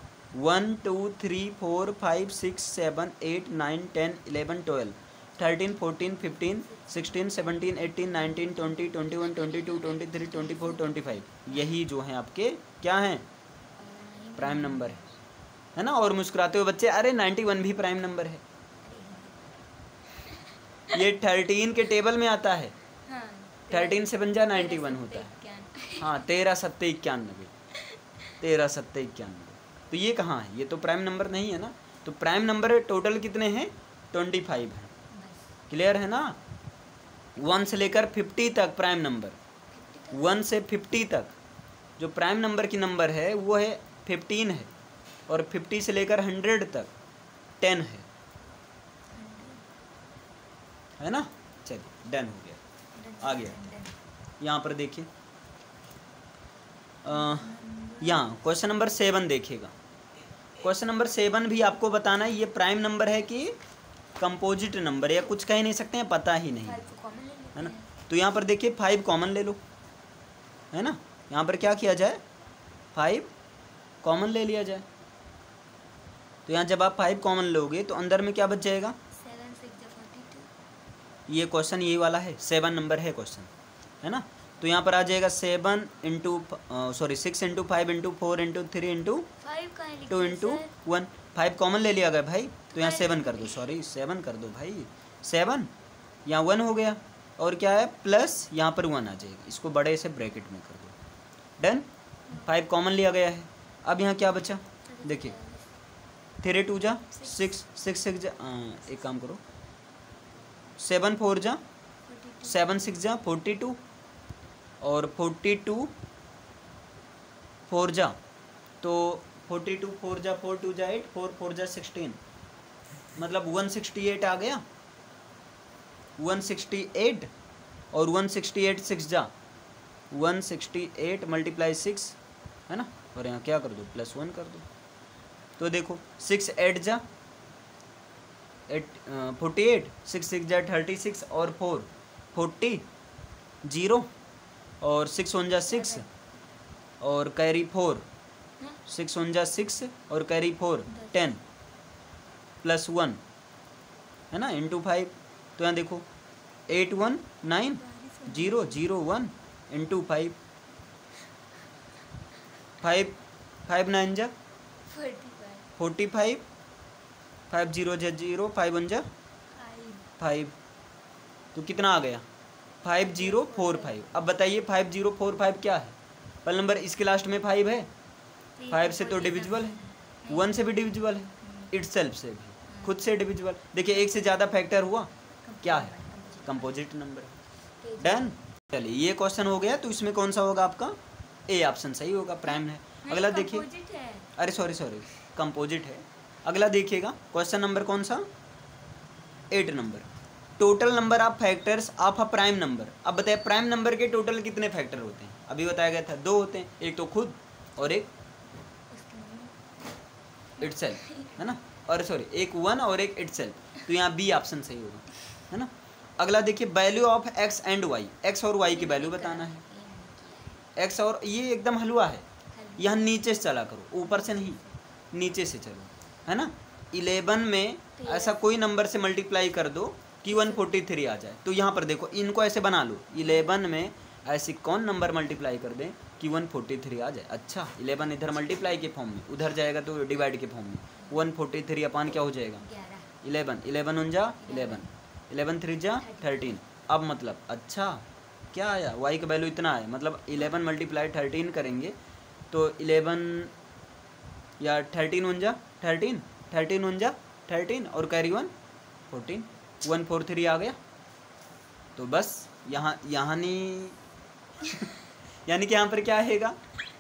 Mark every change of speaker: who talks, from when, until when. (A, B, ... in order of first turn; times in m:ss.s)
0:00.3-0:13.2 A
0:05.4-0:11.8 B
0:13.7-0:15.2 B
0:14.4-0:15.0 A
0:15.8-0:18.4 A
0:18.8-0:19.5 B
0:20.1-0:21.0 B
0:20.9-0:22.7 A
0:23.0-0:26.3 B
0:23.7-0:25.3 A
0:26.0-0:27.5 A
0:27.7-0:28.2 B
0:28.4-0:34.9 A
0:35.1-0:35.5 B
0:35.7-0:36.4 A
0:37.4-0:39.4 A
0:39.7-0:40.4 B
0:40.1-0:41.3 A
0:42.0-0:44.7 A
0:45.3-0:46.9 A
0:47.6-0:48.1 A
0:49.1-0:49.7 B
0:51.0-0:52.6 A
0:52.9-0:54.0 B
0:53.2-0:53.7 A
0:54.4-0:55.1 A
0:57.0-0:59.7 A
0:57.0-0:58.3 B
1:00.6-1:03.6 A
1:04.2-1:06.8 A
1:06.6-1:07.9 B
1:07.5-1:09.6 A
1:10.7-1:12.2 A
1:12.9-1:13.3 A
1:14.0-1:14.8 A
1:16.4-1:19.0 A
1:19.1-1:20.5 B
1:21.3-1:23.5 A
1:24.0-1:29.3 A
1:29.4-1:30.7 B
1:30.1-1:35.7 A
1:32.7-1:33.7 B
1:36.2-1:40.9 A
1:41.6-1:41.8 A
1:42.3-1:42.5 B
1:42.4-1:45.3 A
1:44.6-1:45.8 B
1:46.4-1:49.4 A
1:47.1-1:47.5 B
1:50.8-1:51.6 A
1:52.0-1:52.9 B
1:52.4-1:53.8 A
1:54.8-1:55.9 A
1:57.7-1:58.2 A
1:58.8-2:02.2 A
2:03.2-2:04.6 A
2:06.2-2:07.3 A
2:07.9-2:09.3 A
2:10.1-2:12.2 A
2:12.7-2:14.6 A
2:15.6-2:17.0 A
2:18.7-2:22.8 A
2:23.6-2:24.1 A
2:24.8-2:26.0 A
2:25.7-2:26.1 B
2:27.0-2:28.0 A
2:28.8-2:31.4 A
2:30.9-2:31.3 B
2:32.6-2:33.2 A
2:34.3-2:36.0 A
2:36.7-2:40.3 A
2:37.8-2:38.9 B
2:42.8-2:44.3 A
2:44.8-2:45.7 B
2:45.8-2:46.4 A
2:47.5-2:49.0 A
2:49.5-2:50.1 B
2:50.2-2:50.5 A
2:51.5-2:52.2 A
2:52.8-2:57.9 A
2:53.0-2:54.0 B
2:58.6-3:01.7 B
2:58.7-3:05.1 A
3:02.7-3:03.1 B
3:03.9-3:04.4 B
3:05.4-3:06.8 B
3:05.6-3:07.3 A
3:07.8-3:08.3 B
3:08.0-3:11.0 A
3:11.5-3:13.6 A
3:12.5-3:14.3 B
3:14.4-3:18.3 A
3:19.5-3:20.1 A
3:20.6-3:28.1 A
3:28.9-3:29.7 B
3:30.6-3:31.4 B
3:30.6-3:39.6 A
3:38.6-3:40.6 B
3:40.8-3:42.2 A
3:42.5-3:43.2 B
3:42.8-3:44.6 A
3:44.0-3:44.8 B
3:45.1-4:02.6 A
3:48.0-3:48.5 B
3:50.3-3:50.8 B
3:53.1-3:53.6 B
3:58.0-3:58.9 B
4:01.0-4:01.3 B
4:02.6-4:03.1 B
4:03.2-4:11.9 A
4:04.4-4:05.0 B
4:05.9-4:06.6 B
4:12.5-4:13.5 A
4:14.6-4:18.5 A
4:19.1-4:20.8 A
4:22.0-4:24.0 A
4:24.6-4:24.9 A
4:25.4-4:26.6 A